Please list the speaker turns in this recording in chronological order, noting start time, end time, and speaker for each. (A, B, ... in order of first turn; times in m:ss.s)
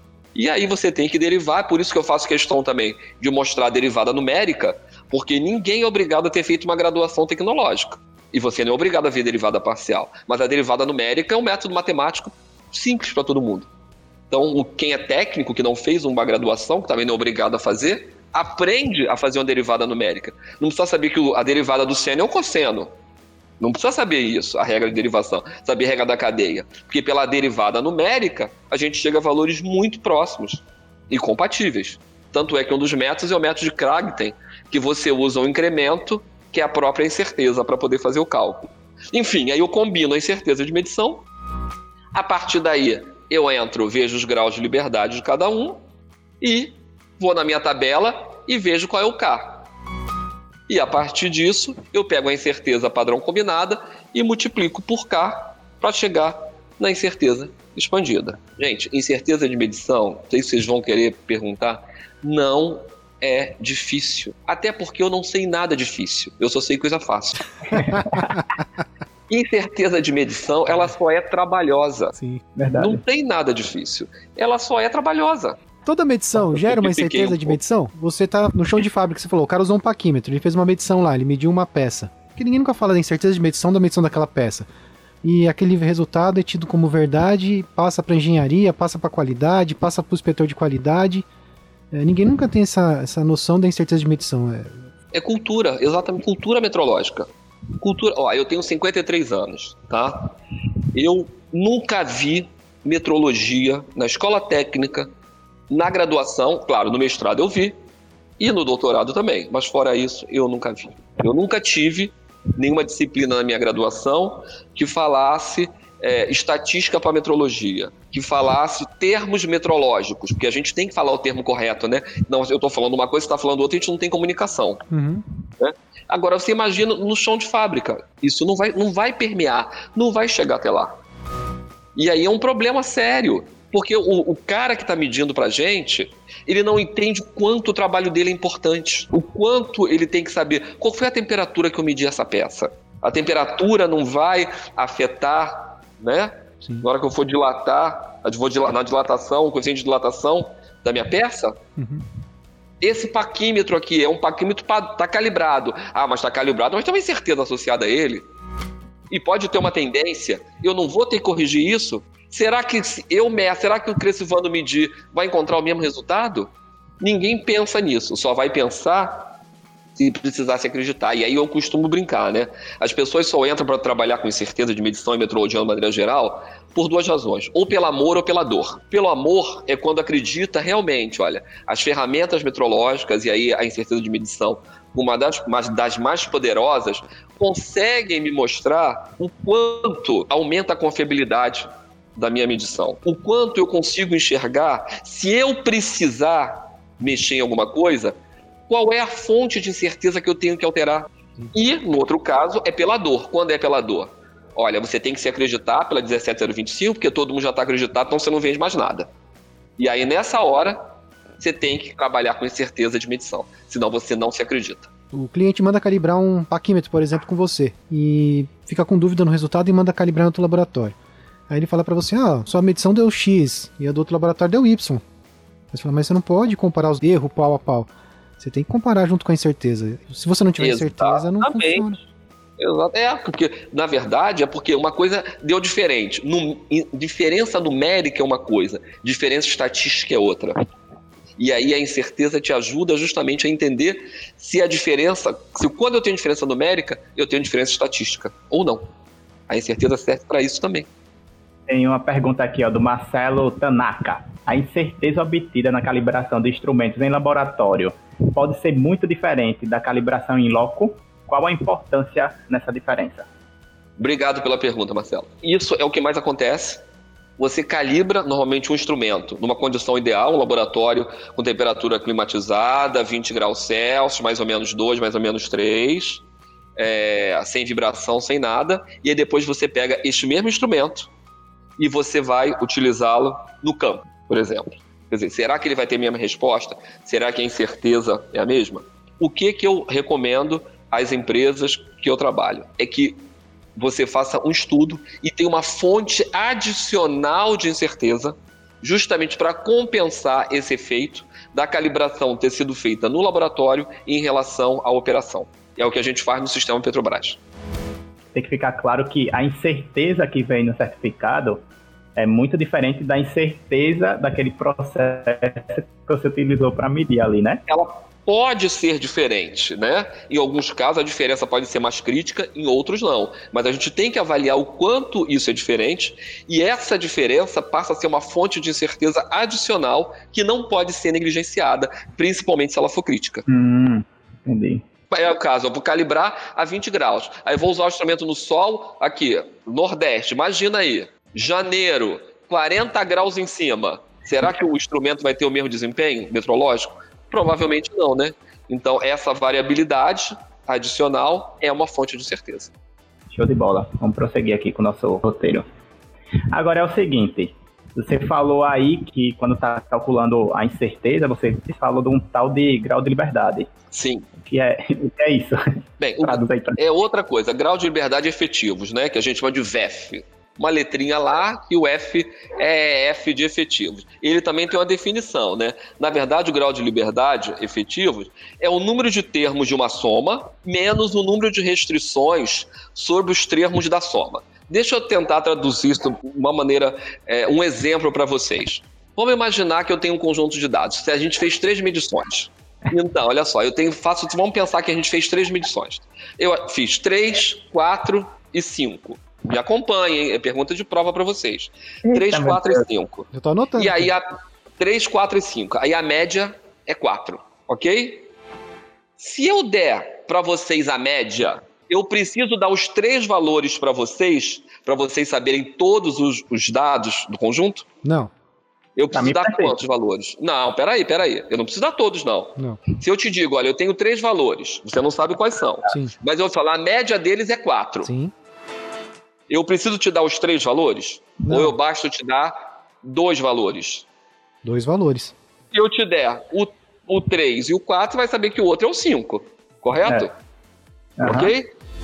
0:00.4-0:13.7 A
0:14.3-0:22.9 A
0:23.6-0:41.2 A
0:42.1-0:45.8 A
0:46.4-0:49.7 A
0:50.7-1:07.5 A
1:07.8-1:08.2 B
1:09.3-1:12.1 A
1:12.2-1:12.4 C
1:12.6-1:13.0 B
1:12.8-1:15.6 A
1:15.9-1:24.7 C
1:16.4-1:17.6 A
1:25.2-1:31.3 C
1:31.9-1:34.8 C
1:35.1-1:40.3 A
1:40.9-1:45.1 A
1:45.7-1:47.8 A
1:48.4-2:04.8 A
2:04.9-2:05.2 C
2:05.6-2:10.9 A
2:12.0-2:31.6 A
2:31.8-2:32.0 C
2:32.8-2:38.3 A
2:39.1-2:49.3 A
2:50.0-3:18.2 A
3:18.7-3:29.1 A
3:29.8-3:30.8 A
3:31.4-3:34.9 A
3:35.1-3:41.0 C
3:41.5-3:45.0 C
3:45.7-3:52.0 C
3:50.6-3:51.9 A
3:52.6-4:00.6 A
4:01.4-4:08.8 A
4:09.5-4:10.9 A
4:11.7-4:23.3 B
4:24.0-4:26.8 A
4:27.4-4:36.2 A
4:36.8-4:41.1 A
4:41.8-4:53.2 A
4:53.8-5:07.4 A
5:08.3-5:11.6 B
5:12.2-5:17.6 B
5:17.7-5:33.4 A
5:33.5-5:34.8 B
5:35.1-5:52.7 A
5:53.3-5:55.6 B
5:56.5-6:03.7 B
6:03.9-6:04.3 A
6:04.4-6:06.8 B
6:06.0-6:44.2 A
6:42.0-6:42.8 B
6:43.3-6:44.1 C
6:44.8-6:48.3 A
6:49.2-6:57.9 A
6:58.0-6:58.3 C
6:59.0-7:08.1 A
6:59.1-6:59.8 B
7:05.9-7:06.1 C
7:08.0-7:08.3 C
7:09.5-7:14.0 A
7:14.6-7:15.3 C
7:15.7-7:20.3 A
7:21.2-7:21.5 B
7:21.2-7:21.7 A